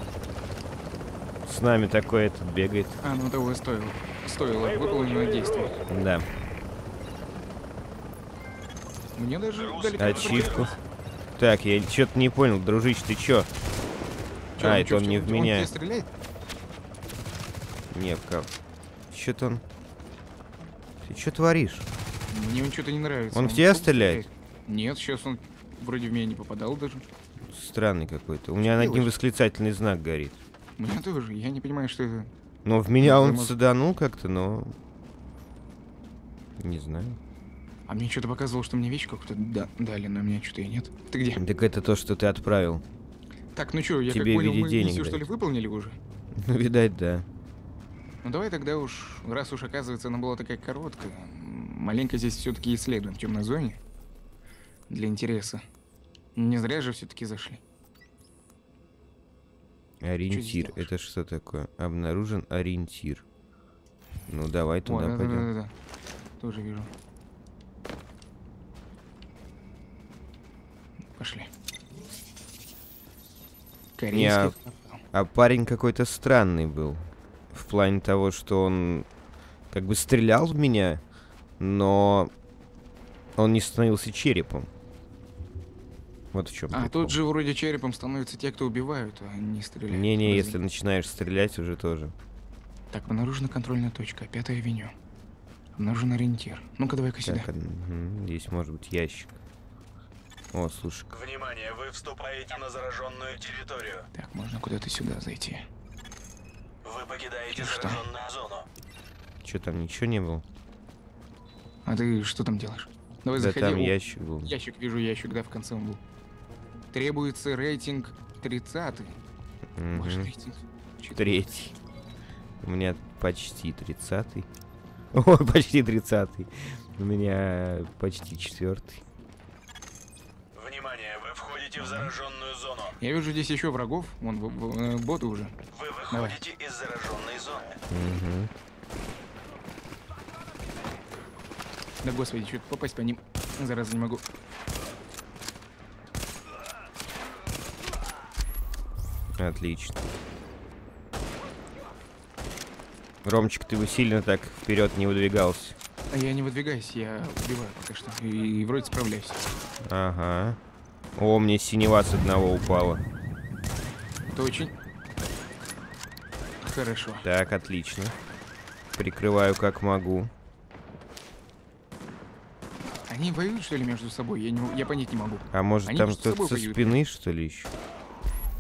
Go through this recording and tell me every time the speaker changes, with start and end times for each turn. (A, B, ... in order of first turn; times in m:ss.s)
0:01.4-0:03.0 A
0:03.0-0:05.7 B
0:04.5-0:05.9 C
0:05.9-0:06.3 A
0:09.2-0:10.8 B
0:09.6-0:10.8 C
0:10.0-0:10.7 A
0:11.4-0:13.5 A
0:14.6-0:16.1 B
0:14.6-0:15.7 A
0:17.9-0:18.5 A
0:19.1-0:19.6 A
0:21.0-0:21.9 A
0:22.3-0:27.0 B
0:23.3-0:24.2 A
0:27.5-0:30.4 A
0:28.6-0:29.1 B
0:30.8-0:32.3 B
0:32.6-0:34.8 A
0:33.0-0:33.5 B
0:36.6-0:37.2 A
0:37.9-0:41.4 B
0:41.4-0:42.8 A
0:43.6-0:46.0 B
0:44.1-0:45.2 A
0:46.3-0:47.3 A
0:48.2-0:53.8 B
0:54.9-0:55.6 B
0:56.4-0:57.6 B
1:00.0-1:03.2 A
1:00.3-1:00.9 B
1:04.3-1:05.5 A
1:04.9-1:05.7 B
1:06.4-1:06.9 B
1:11.2-1:11.5 B
1:14.0-1:15.0 B
1:14.1-1:14.5 A
1:15.1-1:19.1 A
1:19.7-1:21.0 A
1:21.6-1:22.3 A
1:23.4-1:24.7 A
1:26.3-1:27.2 A
1:26.7-1:30.6 B
1:29.9-1:32.1 A
1:32.9-1:34.9 B
1:35.8-1:37.5 B
1:37.3-1:39.3 A
1:40.5-1:41.1 A
1:41.1-1:44.1 C
1:44.1-1:45.7 B
1:46.8-1:48.7 C
1:47.5-1:48.1 B
1:49.4-1:50.4 A
1:51.9-1:56.0 B
1:53.4-1:54.5 A
1:56.9-1:59.2 B
1:59.8-2:00.3 A
1:59.9-2:01.4 B
2:01.2-2:01.8 A
2:02.6-2:04.5 A
2:05.1-2:09.0 A
2:10.5-2:13.0 C
2:13.0-2:15.6 B
2:15.7-2:17.8 C
2:16.1-2:16.4 B
2:17.9-2:18.5 A
2:22.0-2:24.2 B
2:29.4-2:30.0 A
2:33.2-2:35.8 A
2:36.1-2:39.4 B
2:39.8-2:40.6 A
2:41.2-2:43.0 A
2:44.3-2:44.8 B
2:46.6-2:47.3 B
2:47.2-2:48.2 A
2:48.9-2:50.3 A
2:53.1-2:57.0 B
2:55.5-2:57.7 A